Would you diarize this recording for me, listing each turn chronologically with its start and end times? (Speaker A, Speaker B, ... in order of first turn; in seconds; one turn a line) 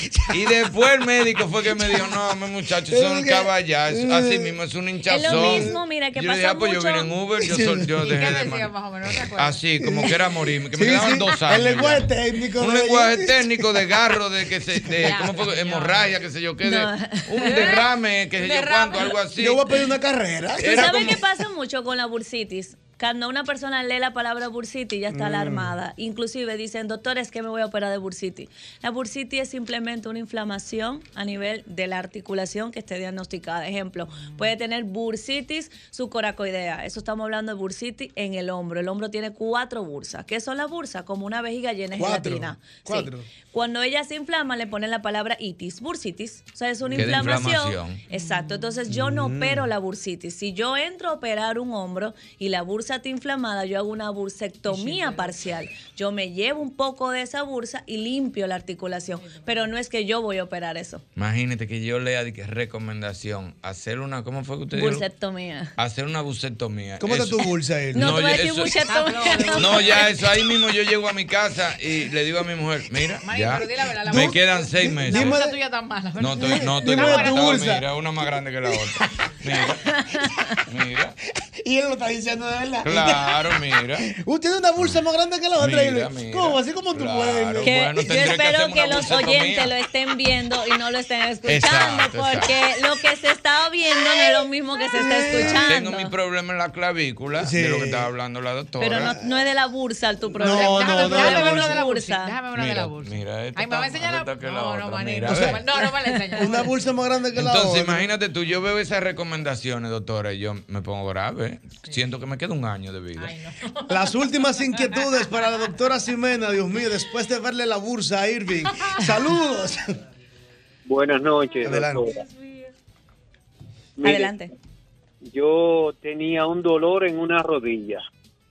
Speaker A: 0.3-8.7
Speaker B: 1.7-2.1
Speaker B: 2.9-4.5
Speaker C: 5.1-7.1
Speaker B: 5.2-5.8
Speaker B: 7.4-8.1
Speaker D: 8.0-9.6
Speaker A: 9.3-19.6
Speaker B: 9.8-10.1
Speaker B: 10.7-13.8
Speaker D: 15.0-16.1
Speaker C: 16.6-17.5
Speaker D: 17.4-19.2
Speaker B: 19.4-21.2
Speaker A: 20.6-21.2
Speaker C: 20.6-61.0
Speaker B: 25.1-25.8
Speaker D: 34.1-34.5
Speaker B: 41.9-43.3
Speaker B: 46.9-47.3
Speaker A: 46.9-48.0
Speaker D: 48.1-48.8
Speaker B: 48.9-49.7
Speaker D: 54.6-55.4
Speaker D: 59.1-59.7
Speaker A: 61.1-65.0
Speaker C: 64.7-65.7
Speaker A: 65.8-68.8
Speaker B: 67.0-68.1
Speaker C: 67.9-69.7
Speaker D: 68.8-70.5
Speaker A: 69.5-75.4
Speaker D: 73.2-77.7
Speaker B: 74.1-75.6
Speaker A: 76.2-79.8
Speaker B: 76.4-77.8
Speaker C: 79.9-80.2
Speaker A: 80.7-81.2
Speaker B: 81.6-87.7
Speaker A: 82.8-84.1
Speaker A: 85.6-89.7
Speaker C: 87.6-96.1
Speaker A: 91.5-92.5
Speaker B: 94.9-95.7
Speaker A: 95.3-99.1
Speaker B: 97.4-98.1
Speaker C: 98.8-102.4
Speaker B: 100.3-101.8
Speaker D: 100.4-106.7
Speaker A: 102.5-105.7
Speaker B: 105.3-105.6
Speaker B: 106.3-108.1
Speaker A: 107.3-113.3
Speaker D: 113.2-115.7
Speaker B: 113.9-120.0
Speaker E: 120.9-122.1
Speaker B: 121.6-122.1
Speaker D: 122.1-122.7
Speaker C: 124.0-124.5
Speaker E: 125.3-128.0